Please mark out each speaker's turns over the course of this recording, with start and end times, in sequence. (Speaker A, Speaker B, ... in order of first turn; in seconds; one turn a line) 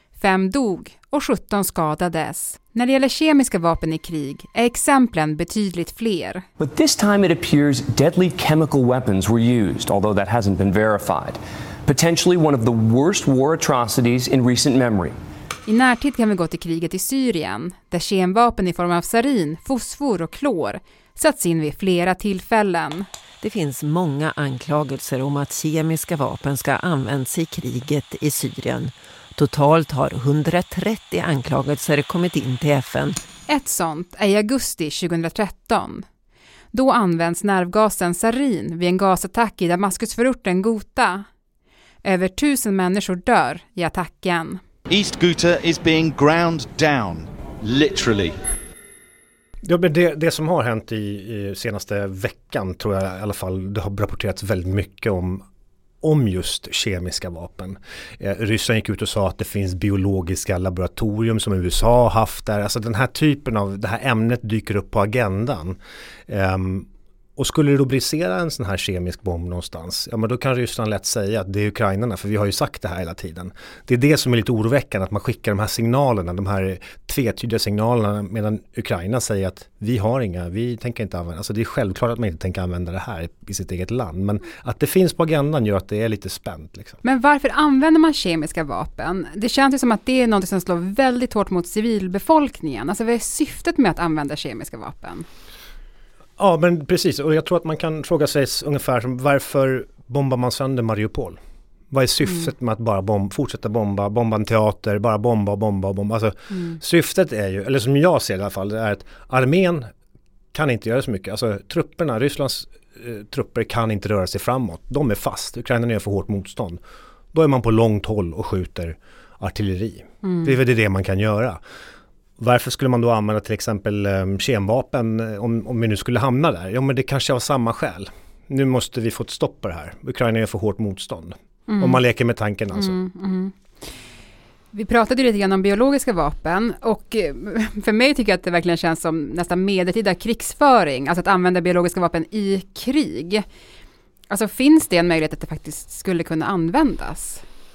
Speaker A: 0.2-6.4
Speaker B: 6.6-15.2
Speaker A: 15.7-23.1
Speaker C: 23.4-33.2
Speaker A: 33.5-36.0
Speaker A: 36.7-41.2
Speaker A: 42.0-44.6
Speaker D: 44.9-48.4
Speaker E: 49.6-55.4
Speaker E: 56.0-87.0
Speaker A: 87.0-95.2
Speaker E: 96.4-101.4
Speaker E: 101.9-109.9
Speaker E: 110.5-116.8
Speaker E: 117.3-121.6
Speaker E: 122.4-133.0
Speaker A: 131.7-132.0
Speaker A: 132.8-133.5
Speaker A: 134.7-143.4
Speaker A: 144.3-147.4